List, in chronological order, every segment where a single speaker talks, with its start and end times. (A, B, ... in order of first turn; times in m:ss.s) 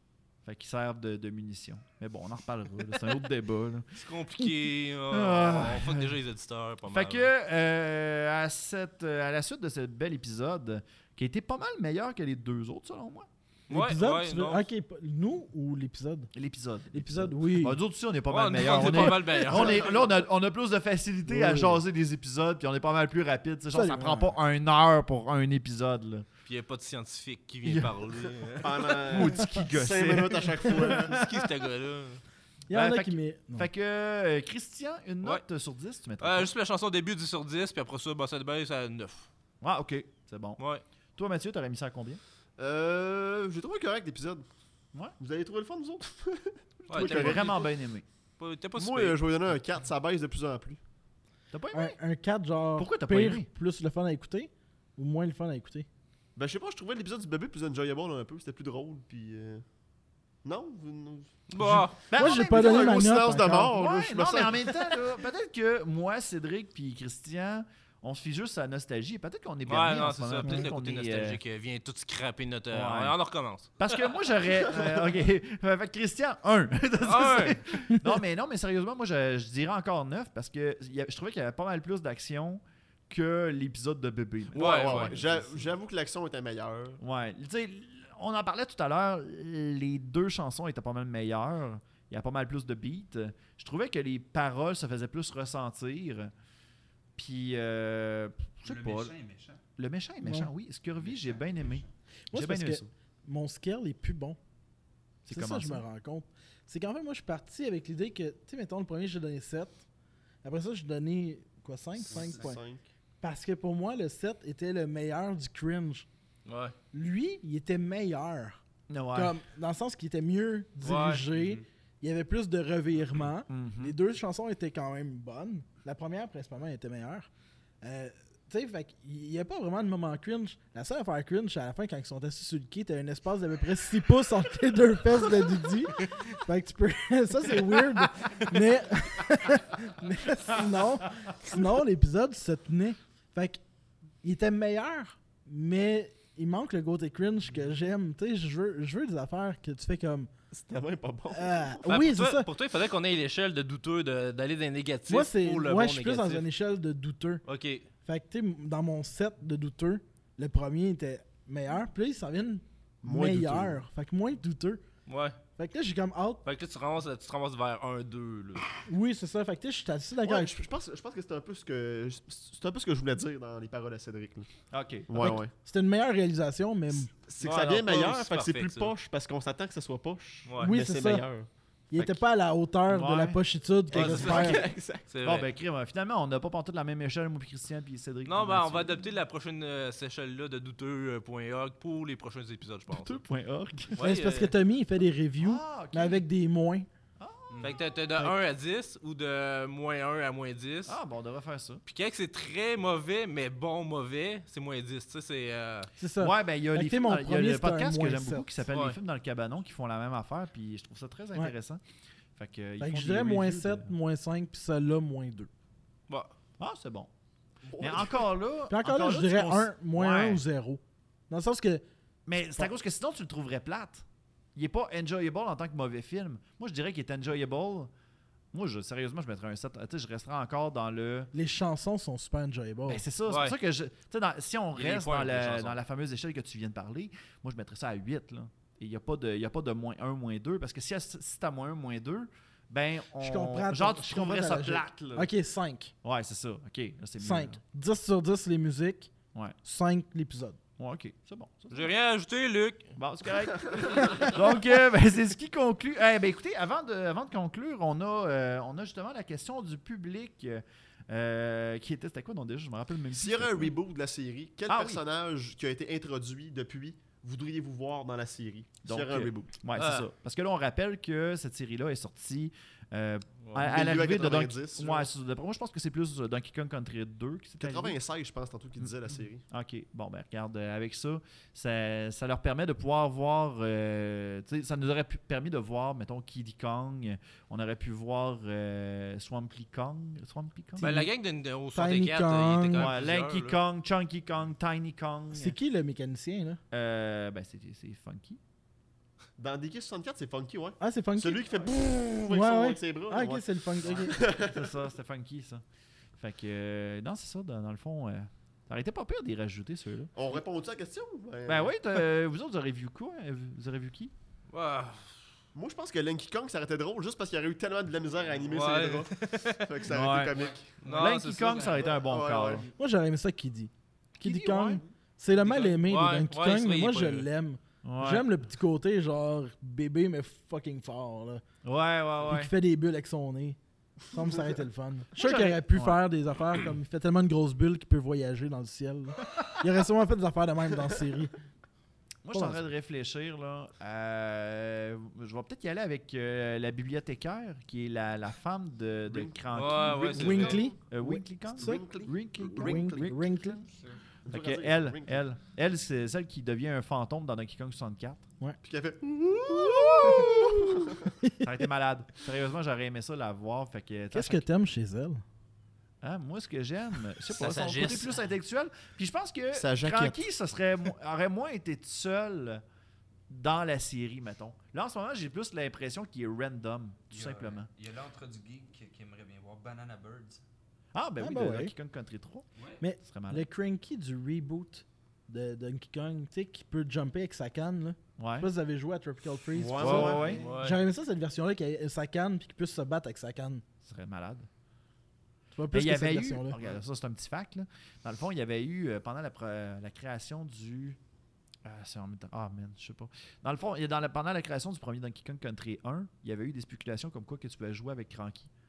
0:00.4-0:03.8 A
0:03.9-0:07.3 B
0:05.1-0:06.2 A
0:06.9-0:13.3 A
0:13.7-0:14.7 B
0:13.7-0:16.3 C
0:16.3-0:26.2 A
0:16.9-0:17.8 C
0:18.3-0:19.9 B
0:19.5-0:20.0 D
0:21.3-0:21.8 C
0:23.7-0:24.4 C
0:26.4-0:29.2 B
0:27.6-0:27.9 A
0:28.6-0:31.2 D
0:29.0-0:31.4 A
0:31.0-0:32.2 B
0:32.7-0:33.7 C
0:32.7-0:36.5 A
0:36.2-0:39.3 B
0:39.6-0:40.6 A
0:40.6-0:40.8 B
0:41.2-0:42.2 A
0:42.6-0:44.4 D
0:45.2-0:47.7 D
0:46.9-0:47.6 B
0:46.9-0:48.0 A
0:48.4-0:49.2 B
0:48.8-0:50.8 D
0:51.5-0:52.0 A
0:51.7-0:55.9 C
0:52.8-0:53.5 A
0:56.4-0:59.6 D
1:00.4-1:01.3 D
1:01.5-1:02.0 B
1:01.6-1:03.7 C
1:02.1-1:11.4 A
1:02.2-1:04.8 D
1:09.6-1:13.7 B
1:12.7-1:13.2 A
1:13.8-1:25.7 A
1:17.0-1:17.6 B
1:24.5-1:27.0 D
1:24.5-1:25.1 B
1:27.0-1:36.3 A
1:37.2-1:39.2 A
1:38.6-1:39.6 E
1:39.8-1:42.9 A
1:40.2-1:40.5 C
1:41.0-1:41.9 E
1:42.3-1:44.4 C
1:45.2-1:45.8 A
1:45.3-1:49.8 C
1:50.4-1:52.6 C
1:52.0-1:52.6 E
1:52.1-1:52.8 D
1:53.2-1:56.1 C
1:56.4-1:56.7 B
1:56.9-1:58.6 C
1:58.9-1:59.4 A
1:59.1-2:07.3 C
2:00.8-2:01.2 B
2:01.2-2:01.6 E
2:03.5-2:03.9 A
2:07.8-2:23.6 C
2:20.8-2:21.3 A
2:24.2-2:30.3 C
2:30.5-2:31.8 D
2:31.3-2:32.5 C
2:31.8-2:36.5 B
2:35.1-2:37.4 C
2:37.4-2:37.9 B
2:38.0-2:44.8 C
2:43.0-2:43.8 D
2:45.1-2:45.4 B
2:45.6-2:46.4 C
2:46.4-2:48.7 B
2:48.8-2:50.5 C
2:50.2-2:54.5 D
2:54.7-2:55.4 A
2:55.1-2:55.5 D
2:55.2-2:57.1 C
2:57.2-3:01.5 D
2:57.4-2:58.9 B
3:00.5-3:00.7 B
3:00.6-3:01.3 C
3:01.9-3:04.6 C
3:02.9-3:04.6 A
3:03.9-3:05.4 B
3:04.0-3:05.0 D
3:05.2-3:09.0 A
3:08.2-3:13.2 B
3:12.9-3:14.0 A
3:13.9-3:14.5 B
3:14.0-3:16.9 C
3:15.4-3:16.2 A
3:17.2-3:17.5 A
3:17.5-3:17.8 E
3:17.6-3:21.0 B
3:20.8-3:21.8 A
3:21.8-3:25.9 B
3:26.0-3:28.5 C
3:26.2-3:31.8 A
3:28.7-3:29.0 B
3:32.4-3:33.9 A
3:32.8-3:35.5 C
3:36.6-3:37.1 A
3:37.6-3:38.2 D
3:37.8-3:40.4 A
3:38.7-3:41.8 C
3:42.2-3:47.9 A
3:48.5-3:51.3 A
3:51.3-3:53.0 C
3:52.9-4:05.3 A
3:53.3-3:53.6 B
3:54.7-3:55.8 B
4:03.2-4:05.9 C
4:06.0-4:07.6 A
4:07.2-4:09.1 C
4:09.6-4:10.6 C
4:10.8-4:11.9 A
4:11.7-4:13.0 B
4:13.0-4:23.7 A
4:23.1-4:29.5 D
4:24.7-4:25.0 A
4:28.8-4:38.0 A
4:29.8-4:30.0 B
4:33.4-4:33.8 B
4:33.6-4:35.1 D
4:37.6-4:39.4 D
4:39.5-4:50.9 A
4:50.8-4:51.1 C
4:50.8-4:53.6 B
4:51.7-4:52.9 C
4:52.8-4:55.6 A
4:55.3-4:56.6 C
4:56.7-4:58.4 A
4:59.4-5:04.7 D
5:00.8-5:01.5 C
5:02.3-5:04.2 C
5:04.2-5:05.6 A
5:06.2-5:10.4 A
5:10.1-5:11.7 D
5:11.4-5:14.1 A
5:14.5-5:15.1 B
5:15.5-5:20.8 D
5:18.5-5:19.6 B
5:19.9-5:22.7 A
5:20.3-5:22.7 E
5:20.8-5:21.6 B
5:21.7-5:22.7 D
5:22.8-5:31.4 C
5:24.2-5:24.8 A
5:25.4-5:27.3 B
5:27.8-5:28.4 A
5:31.6-5:32.5 A
5:32.2-5:33.6 C
5:34.1-5:41.3 C
5:35.2-5:36.0 A
5:42.2-5:53.6 A
5:42.3-5:42.6 C
5:49.1-5:49.3 D
5:49.5-5:50.7 B
5:50.2-5:51.8 C
5:51.6-5:53.2 D
5:52.4-5:53.6 C
5:54.2-5:55.2 D
5:54.2-5:58.2 A
5:58.6-6:00.9 D
5:59.7-6:00.3 A
5:59.7-6:01.5 C
6:01.4-6:04.4 A
6:04.1-6:05.2 C
6:06.0-6:12.6 A
6:07.3-6:08.3 B
6:09.5-6:10.2 D
6:13.3-6:17.7 A
6:17.1-6:20.4 E
6:20.9-6:22.4 A
6:21.2-6:21.7 C
6:22.6-6:22.8 E
6:22.8-6:33.6 C
6:23.0-6:23.5 A
6:28.2-6:28.5 A
6:29.5-6:30.5 D
6:29.8-6:30.4 A
6:29.8-6:30.8 B
6:30.1-6:30.6 E
6:33.8-6:34.5 A
6:35.5-6:36.6 C
6:35.7-6:41.0 A
6:41.6-6:48.5 A